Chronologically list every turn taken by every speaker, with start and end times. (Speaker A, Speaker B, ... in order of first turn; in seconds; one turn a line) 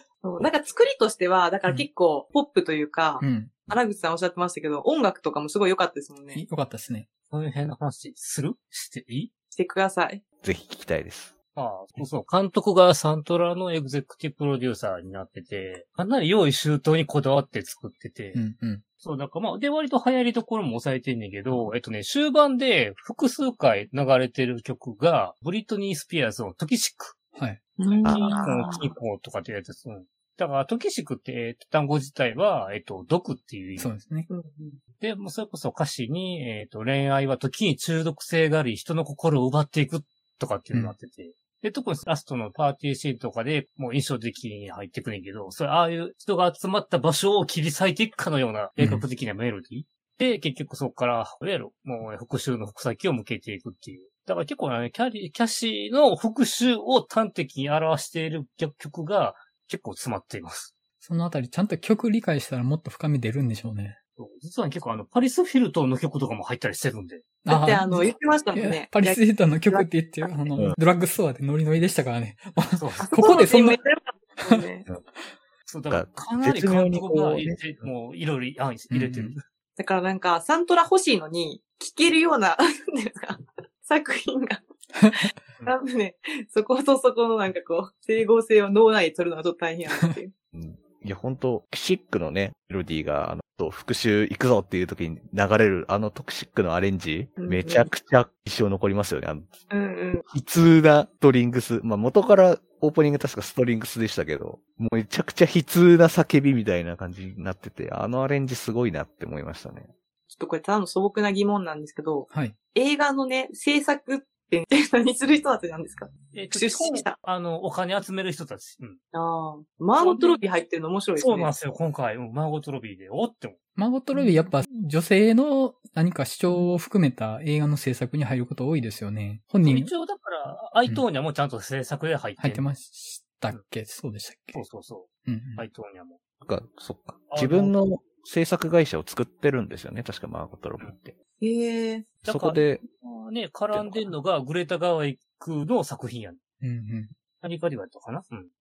Speaker A: 0.2-6.4
Speaker B: 3.2-3.5
Speaker B: 6.3-7.1
Speaker C: 7.3-9.3
Speaker A: 9.5-10.2
Speaker D: 10.4-11.3
Speaker C: 11.6-18.4
Speaker B: 18.4-18.8
Speaker C: 19.0-27.1
Speaker A: 27.8-28.9
Speaker D: 28.0-28.4
Speaker C: 28.0-33.9
Speaker B: 33.8-34.3
Speaker A: 34.3-34.8
Speaker C: 35.0-60.7
Speaker B: 48.8-49.0
Speaker B: 61.0-64.0
Speaker C: 64.2-67.2
Speaker B: 67.5-73.8
Speaker A: 67.5-69.9
Speaker C: 72.8-73.5
Speaker A: 73.0-74.8
Speaker B: 74.4-74.7
Speaker C: 75.7-79.4
Speaker D: 75.9-77.6
Speaker B: 78.9-79.4
Speaker A: 79.8-84.6
Speaker B: 85.0-85.2
Speaker A: 85.2-90.3
Speaker D: 90.5-99.7
Speaker A: 97.4-97.9
Speaker A: 99.7-100.2
Speaker D: 100.3-109.9
Speaker A: 110.3-117.2
Speaker C: 116.3-119.0
Speaker A: 119.1-121.5
Speaker C: 120.0-120.6
Speaker C: 121.2-123.6
Speaker B: 123.8-129.9
Speaker A: 124.1-124.5
Speaker C: 129.6-132.6
Speaker B: 132.4-134.6
Speaker C: 134.5-136.2
Speaker B: 135.3-135.6
Speaker D: 136.4-141.2
Speaker C: 137.3-137.7
Speaker A: 141.4-142.1
Speaker D: 142.2-142.8
Speaker C: 142.2-146.4
Speaker D: 143.7-144.1
Speaker B: 146.6-147.1
Speaker C: 147.4-148.5